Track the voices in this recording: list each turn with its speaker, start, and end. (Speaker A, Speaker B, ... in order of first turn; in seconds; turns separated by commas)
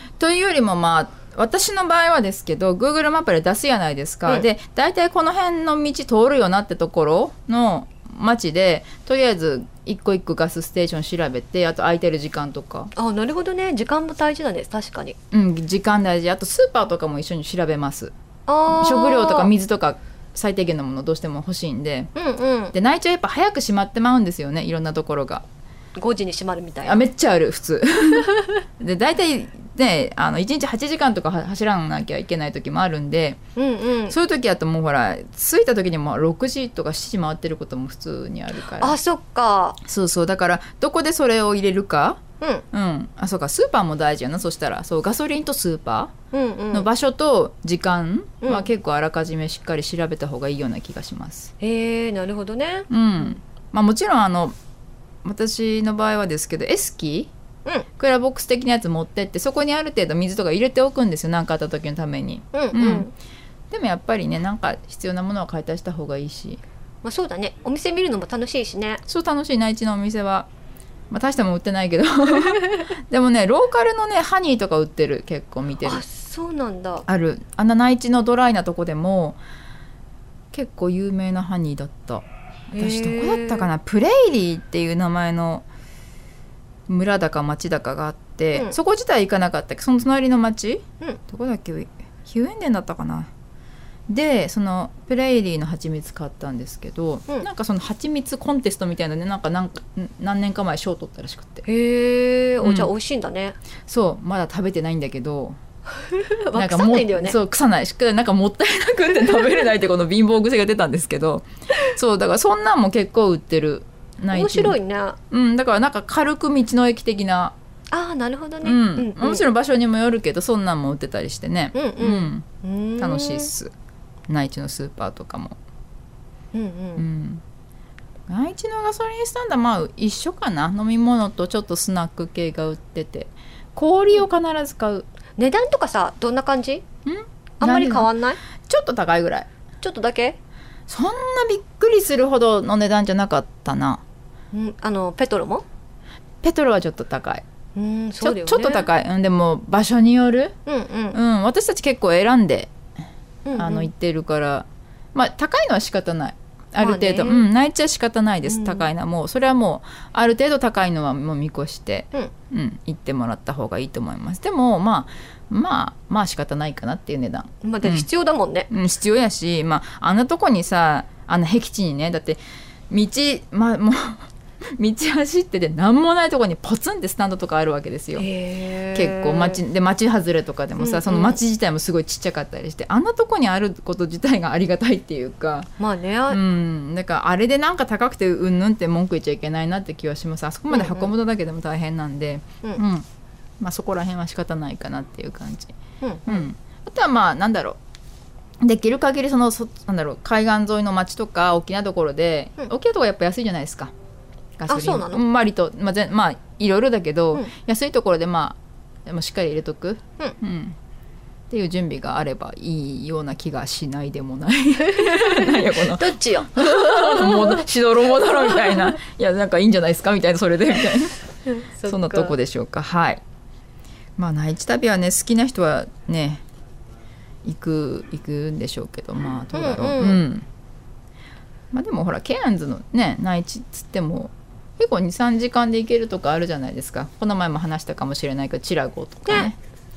Speaker A: 0.2-12.9, Speaker B: 12.9-15.2, Speaker A: 15.3-18.1, Speaker B: 18.5-19.5, Speaker A: 18.7-22.1, Speaker B: 22.1-22.7, Speaker A: 22.7-25.4, Speaker B: 25.9-27.0, Speaker A: 26.8-33.4, Speaker B: 33.5-34.1, Speaker A: 34.1-39.0, Speaker B: 38.8-39.8, Speaker A: 39.8-46.2, Speaker B: 46.3-46.9, Speaker A: 46.7-51.5, Speaker B: 48.4-48.7, Speaker B: 51.6-52.9, Speaker A: 52.9-54.5, Speaker A: 55.2-57.3, Speaker A: 58.0-63.1, Speaker B: 62.5-63.1, Speaker A: 63.7-66.6, Speaker B: 67.0-69.0, Speaker A: 69.1-70.5, Speaker A: 71.1-76.0, Speaker B: 75.8-77.0, Speaker A: 77.1-79.4, Speaker A: 80.5-85.7, Speaker B: 82.7-83.7, Speaker A: 86.9-93.3, Speaker A: 94.1-101.6, Speaker B: 101.7-103.6, Speaker A: 102.6-102.9, Speaker A: 103.9-105.6, Speaker B: 106.1-107.3, Speaker A: 106.5-114.8, Speaker B: 114.3-115.2, Speaker A: 115.3-117.5, Speaker B: 117.9-119.4, Speaker A: 118.6-123.7, Speaker B: 121.7-123.5, Speaker A: 124.3-125.5, Speaker B: 126.5-127.0, Speaker A: 127.0-127.4, Speaker A: 128.3-135.1, Speaker B: 135.4-136.8, Speaker A: 137.1-138.1, Speaker B: 137.6-138.4, Speaker A: 138.7-139.5, Speaker B: 139.8-140.4, Speaker A: 140.9-144.0, Speaker B: 144.5-145.6, Speaker A: 146.4-147.4, Speaker B: 147.8-148.9, Speaker A: 148.2-150.6, Speaker B: 150.6-151.2, Speaker A: 151.1-152.7, Speaker B: 153.4-153.9, Speaker A: 153.6-168.1, Speaker B: 156.8-157.4, Speaker B: 158.4-158.9, Speaker B: 167.6-168.7, Speaker A: 168.7-178.2, Speaker B: 178.2-179.6, Speaker A: 178.9-185.7, Speaker B: 180.8-181.4, Speaker B: 185.8-186.4, Speaker A: 186.3-193.0, Speaker B: 190.7-191.1, Speaker A: 193.6-195.7, Speaker B: 196.0-196.4, Speaker A: 196.2-197.8, Speaker A: 198.6-203.9, Speaker A: 204.6-210.7, Speaker B: 204.7-205.2, Speaker A: 211.5-221.1, Speaker B: 214.9-217.6, Speaker B: 218.4-218.7, Speaker B: 221.5-222.3, Speaker A: 221.8-223.2, Speaker A: 224.2-226.4, Speaker A: 227.4-230.4, Speaker B: 229.5-230.2, Speaker A: 231.7-239.6